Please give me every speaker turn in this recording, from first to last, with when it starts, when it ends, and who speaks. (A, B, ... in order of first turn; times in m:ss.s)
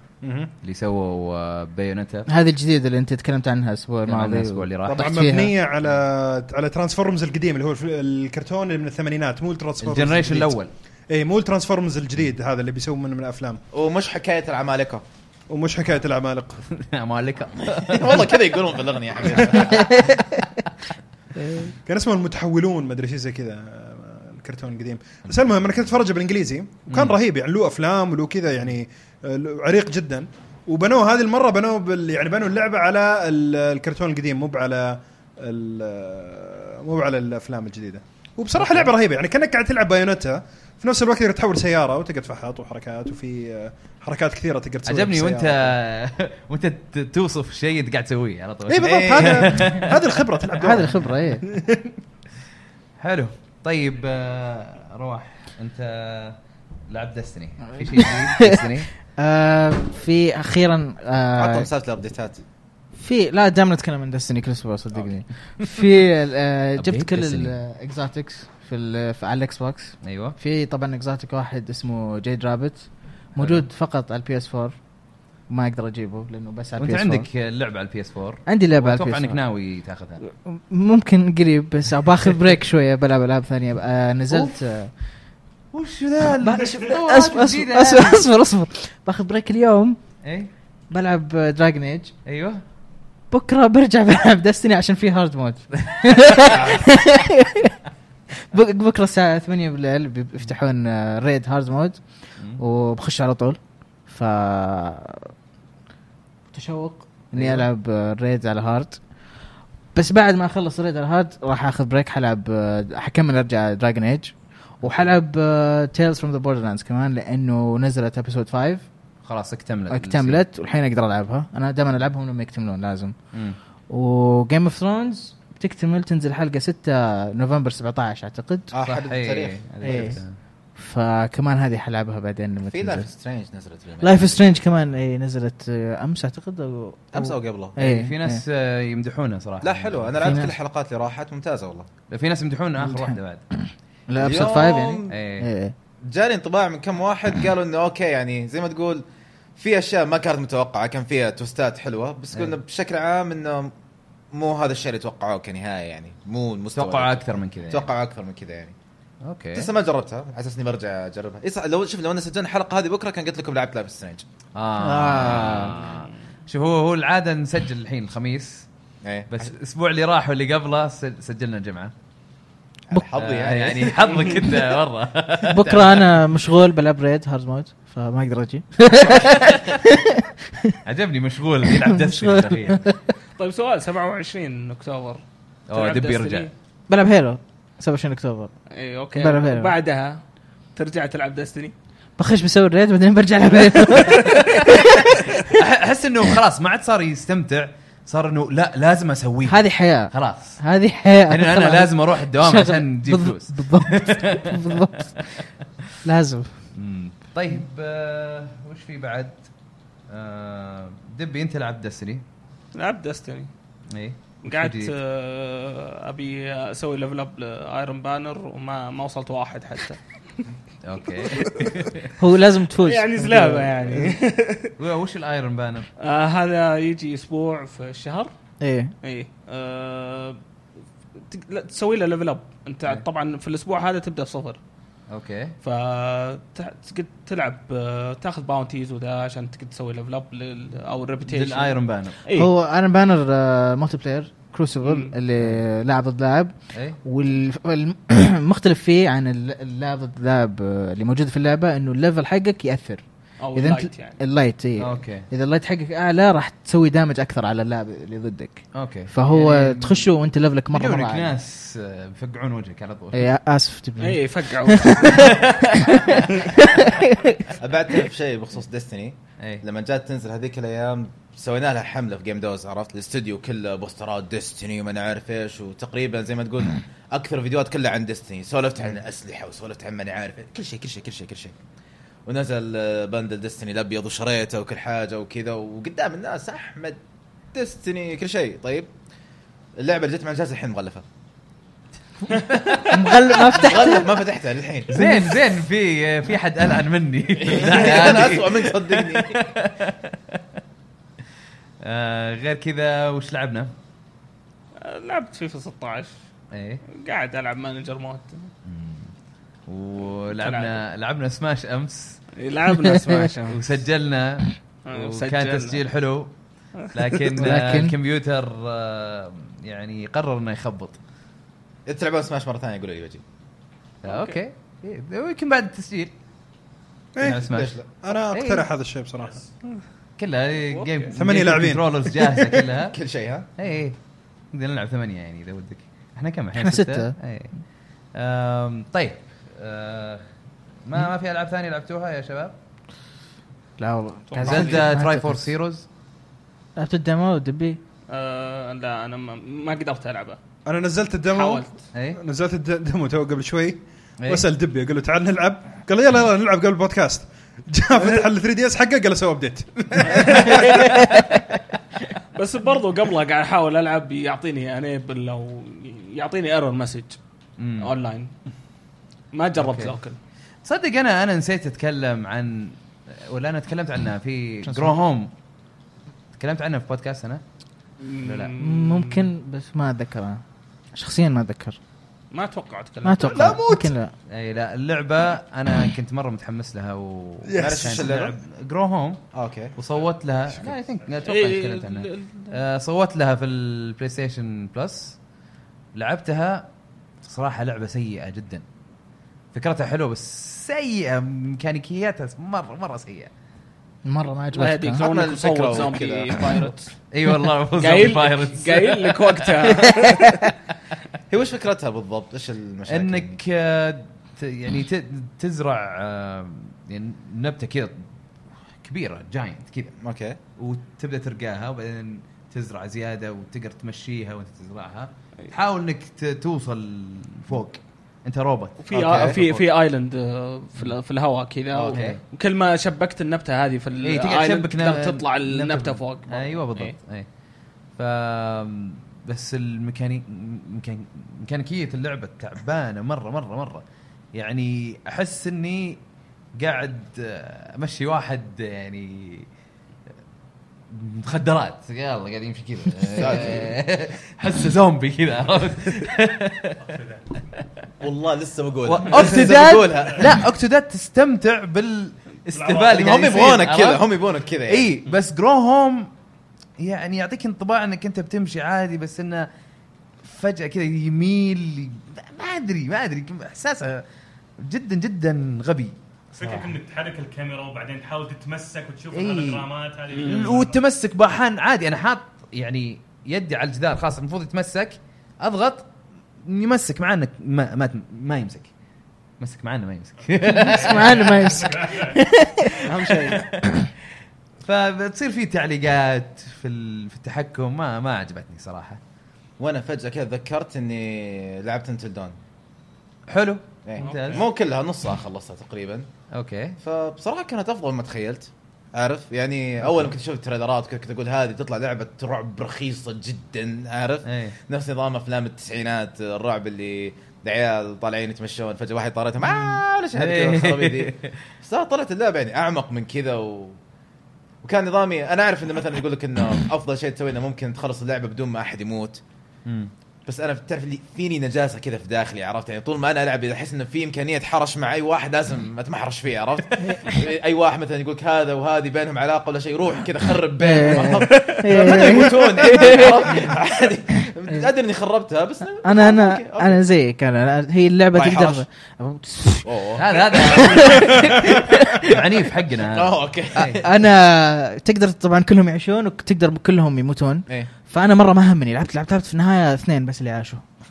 0:00.2-0:00.5 A
0:00.6-0:02.3 B
0:02.3-0:05.5 C
0:04.0-0:05.1 B
0:04.9-0:10.6 A
0:09.8-0:10.7 B
0:11.1-0:13.6 A
0:13.7-0:15.0 D
0:15.5-0:16.6 A
0:16.7-0:18.5 B
0:17.8-0:20.0 D
0:19.4-0:20.1 B
0:19.7-0:20.2 C
0:21.4-0:21.7 C
0:21.9-0:45.7 A
0:26.9-0:27.2 B
0:38.5-0:38.9 B
0:44.9-0:50.3 B
0:48.7-0:51.9 A
0:48.8-0:49.6 D
0:50.6-0:51.4 C
0:53.0-0:56.4 B
0:56.9-0:58.9 B
0:57.7-1:01.7 C
1:01.4-1:02.4 D
1:03.0-1:14.7 C
1:06.8-1:07.6 B
1:10.0-1:10.4 B
1:13.4-1:13.6 B
1:15.5-1:17.3 C
1:16.8-1:20.2 B
1:18.5-1:19.4 C
1:20.2-1:24.9 C
1:24.3-1:24.6 B
1:25.7-1:28.3 B
1:26.4-1:30.0 C
1:30.2-1:30.5 B
1:30.9-1:32.1 C
1:32.3-1:32.6 B
1:33.3-1:37.8 C
1:36.5-1:36.7 D
1:38.5-1:45.3 C
1:46.5-1:49.0 C
1:47.3-1:47.7 B
1:50.0-1:58.9 C
1:54.8-1:55.1 B
1:59.2-2:00.4 B
1:59.9-2:03.2 C
2:03.3-2:03.6 B
2:03.9-2:08.7 C
2:08.7-2:10.2 D
2:08.8-2:10.4 B
2:09.8-2:10.2 C
2:10.8-2:13.1 C
2:12.6-2:14.6 D
2:14.0-2:18.4 C
2:17.1-2:17.8 D
2:17.8-2:20.4 B
2:19.6-2:21.9 D
2:20.2-2:20.5 C
2:22.1-2:23.4 B
2:22.8-2:25.7 C
2:24.2-2:25.2 D
2:24.3-2:25.5 B
2:26.1-2:29.0 D
2:29.6-2:33.7 D
2:34.3-2:38.7 D
2:36.7-2:37.9 B
2:39.2-2:39.7 B
2:39.6-2:44.2 D
2:44.6-2:48.7 B
2:44.8-2:45.9 C
2:49.0-2:49.5 D
2:49.3-2:51.9 B
2:52.9-2:54.2 D
2:53.1-2:56.1 B
2:55.4-3:00.8 C
3:00.8-3:02.9 B
3:01.6-3:03.0 C
3:03.4-3:06.5 E
3:05.7-3:06.5 B
3:06.9-3:08.5 C
3:08.8-3:10.2 E
3:09.2-3:09.7 C
3:10.8-3:11.7 E
3:12.2-3:15.6 C
3:13.9-3:14.6 E
3:15.5-3:20.6 B
3:19.5-3:25.4 C
3:21.3-3:25.3 B
3:26.0-3:26.6 C
3:26.7-3:29.4 B
3:30.1-3:32.2 B
3:32.8-3:33.5 E
3:33.9-3:34.9 B
3:34.4-3:40.0 E
3:40.8-3:42.2 B
3:41.3-3:41.8 E
3:42.2-3:44.2 C
3:42.8-3:44.7 E
3:44.8-3:45.9 B
3:46.0-3:48.3 E
3:48.6-3:48.9 C
3:49.0-3:50.4 E
3:51.2-3:54.6 E
3:55.1-3:55.5 B
3:55.6-4:02.5 E
4:01.3-4:02.2 B
4:02.4-4:06.5 C
4:04.8-4:05.2 E
4:07.0-4:13.0 C
4:13.4-4:14.2 E
4:13.6-4:21.3 C
4:14.8-4:15.3 B
4:18.8-4:20.1 B
4:20.7-4:23.3 B
4:23.1-4:27.5 C
4:24.0-4:25.4 E
4:25.1-4:26.3 B
4:27.6-4:41.6 D
4:42.3-4:47.0 D
4:47.5-4:48.9 D
4:49.8-4:51.0 D
4:52.5-4:53.4 B
4:52.8-4:54.2 C
4:53.5-4:54.9 D
4:54.9-5:00.6 B
4:54.9-4:55.4 C
4:57.4-4:59.4 D
5:01.8-5:03.7 B
5:04.8-5:06.1 E
5:06.5-5:06.8 B
5:07.0-5:08.5 E
5:08.6-5:09.1 B
5:09.7-5:12.2 B
5:10.3-5:10.8 E
5:12.4-5:13.6 E
5:13.5-5:16.3 B
5:14.9-5:15.8 E
5:16.9-5:21.0 B
5:17.4-5:17.9 C
5:21.9-5:23.2 D
5:24.0-5:26.1 B
5:24.0-5:24.4 E
5:27.2-5:29.4 A
5:27.2-5:27.7 B
5:27.3-5:27.9 D
5:28.3-5:28.7 B
5:30.2-5:33.0 B
5:30.7-5:31.1 E
5:31.1-5:32.6 A
5:32.9-5:33.5 D
5:33.6-5:34.0 B
5:34.5-5:37.6 B
5:36.6-5:37.2 C
5:38.2-5:40.2 B
5:40.8-5:42.6 B
5:43.8-5:45.5 C
5:44.3-5:44.9 E
5:44.4-5:45.9 B
5:46.8-5:47.8 C
5:48.1-5:50.4 E
5:50.7-6:00.8 A
5:51.3-5:51.8 E
5:51.9-5:52.2 B
6:00.0-6:01.0 E
6:02.4-6:07.2 E
6:07.6-6:07.9 B
6:07.8-6:08.3 E
6:09.3-6:10.2 E
6:09.6-6:10.0 B
6:10.6-6:15.3 B
6:14.7-6:14.9 C
6:16.4-6:17.4 B
6:18.0-6:19.3 E
6:18.2-6:18.6 B
6:18.6-6:20.4 C
6:21.0-6:21.8 C
6:22.3-6:23.6 E
6:23.0-6:24.1 C
6:23.3-6:23.9 A
6:24.3-6:29.2 B
6:27.5-6:28.1 A
6:27.6-6:28.4 D
6:29.3-6:29.8 D
6:29.8-6:35.2 B
6:31.2-6:32.5 E
6:36.0-6:36.7 B
6:37.2-6:38.6 B
6:39.5-6:43.3 B
6:44.0-6:45.0 C
6:44.5-6:46.9 E
6:45.0-6:46.5 D
6:47.1-6:49.8 B
6:47.8-6:50.4 E
6:49.9-6:50.3 C
6:51.3-6:53.4 D
6:52.9-6:58.1 B
6:58.8-6:59.9 B
7:00.0-7:00.4 D
7:00.6-7:09.6 B
7:08.8-7:17.0 E
7:08.9-7:09.4 D
7:11.8-7:12.1 D
7:11.9-7:12.2 B
7:14.0-7:17.3 B
7:18.0-7:23.8 B
7:24.4-7:26.0 B
7:26.6-7:29.5 B
7:30.9-7:36.8 B
7:33.2-7:33.7 D
7:36.8-7:37.3 F
7:38.0-7:40.3 D
7:38.8-7:44.0 B
7:42.5-7:43.4 F
7:42.9-7:44.9 D
7:44.7-7:46.1 B
7:46.8-7:49.5 B
7:50.2-7:54.0 B
7:54.6-7:56.0 B
7:56.3-8:00.8 F
7:59.1-7:59.7 B
8:00.1-8:00.6 E
8:00.2-8:05.9 B
8:06.4-8:08.7 B
8:09.4-8:11.9 B
8:10.3-8:12.2 F
8:10.4-8:13.1 C
8:12.8-8:13.4 E
8:13.1-8:13.6 B
8:14.6-8:19.0 B
8:19.6-8:22.4 D
8:23.3-8:24.4 B
8:23.9-8:26.1 D
8:24.0-8:24.4 E
8:26.3-8:26.8 B
8:26.8-8:43.8 D
8:34.2-8:34.6 B
8:40.1-8:41.4 B
8:44.6-8:49.2 D
8:49.6-8:49.9 B
8:50.3-9:06.8 D
9:00.6-9:03.5 C
9:01.3-9:01.6 E
9:05.8-9:09.7 C
9:08.1-9:08.6 D
9:09.6-9:10.9 D
9:10.0-9:13.8 B
9:10.3-9:12.0 C
9:12.8-9:13.9 D
9:13.8-9:20.6 C